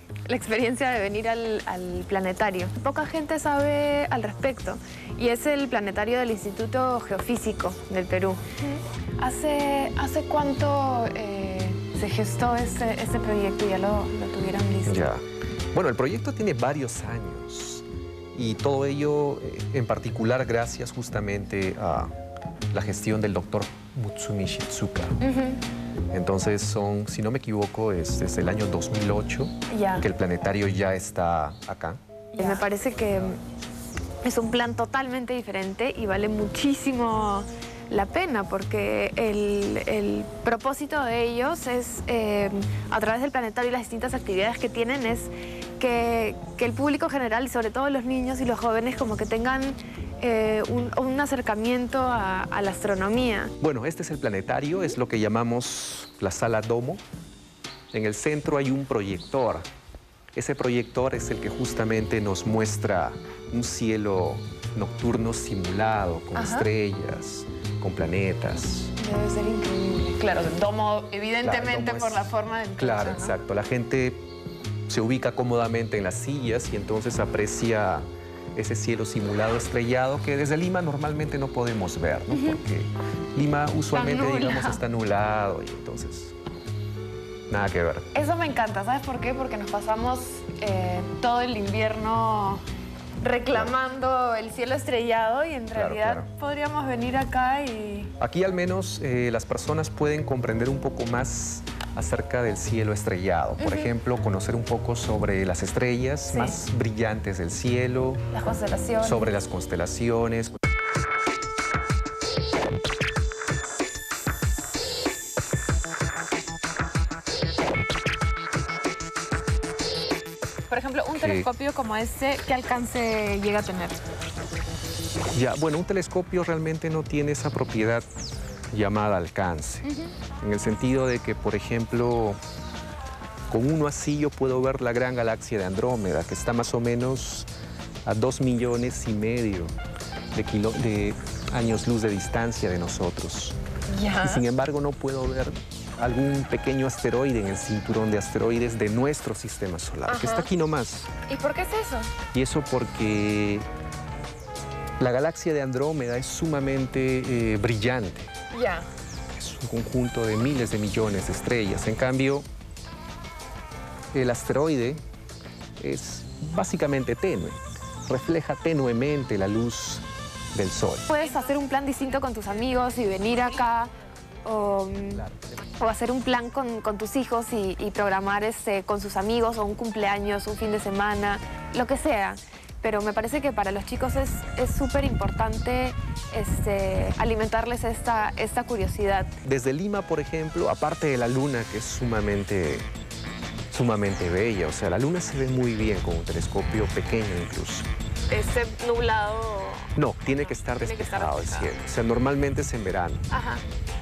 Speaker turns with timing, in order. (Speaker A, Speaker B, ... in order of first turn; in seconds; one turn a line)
Speaker A: 0.3-15.1
Speaker B: 14.9-22.1
Speaker B: 22.7-25.2
Speaker A: 25.2-25.6
Speaker B: 26.1-32.6
Speaker A: 29.7-30.1
Speaker A: 32.4-33.4
Speaker A: 34.2-53.5
Speaker B: 53.6-57.0
Speaker B: 57.9-59.7
Speaker B: 60.4-68.9
Speaker A: 66.3-66.7
Speaker A: 69.0-73.4
Speaker B: 71.4-74.3
Speaker B: 74.9-86.3
Speaker A: 82.3-82.6
Speaker A: 83.9-84.8
Speaker B: 87.5-88.1
Speaker A: 88.1-92.6
Speaker A: 93.2-98.1
Speaker B: 95.7-96.3
Speaker B: 98.2-108.2
Speaker A: 103.6-103.9
Speaker A: 106.3-106.6
Speaker A: 108.3-109.3
Speaker B: 109.0-110.5
Speaker A: 120.7-124.0
Speaker B: 121.1-121.5
Speaker B: 125.3-128.1
Speaker B: 128.7-129.9
Speaker A: 129.8-130.1
Speaker B: 130.4-132.4
Speaker B: 133.5-137.5
Speaker B: 138.1-139.7
Speaker B: 140.3-143.6
Speaker A: 143.9-144.4
Speaker B: 144.2-151.1
Speaker A: 150.1-150.5
Speaker A: 151.3-152.1
Speaker B: 152.3-153.7
Speaker B: 155.0-158.3
Speaker A: 158.5-158.9
Speaker B: 159.3-162.5
Speaker B: 164.1-165.0
Speaker B: 165.8-171.1
Speaker A: 171.1-173.9
Speaker A: 174.4-175.2
Speaker B: 175.1-175.6
Speaker A: 175.8-189.3
Speaker B: 189.4-192.9
Speaker B: 193.7-197.9
Speaker A: 198.3-201.7
Speaker B: 200.0-203.3
Speaker A: 203.3-203.6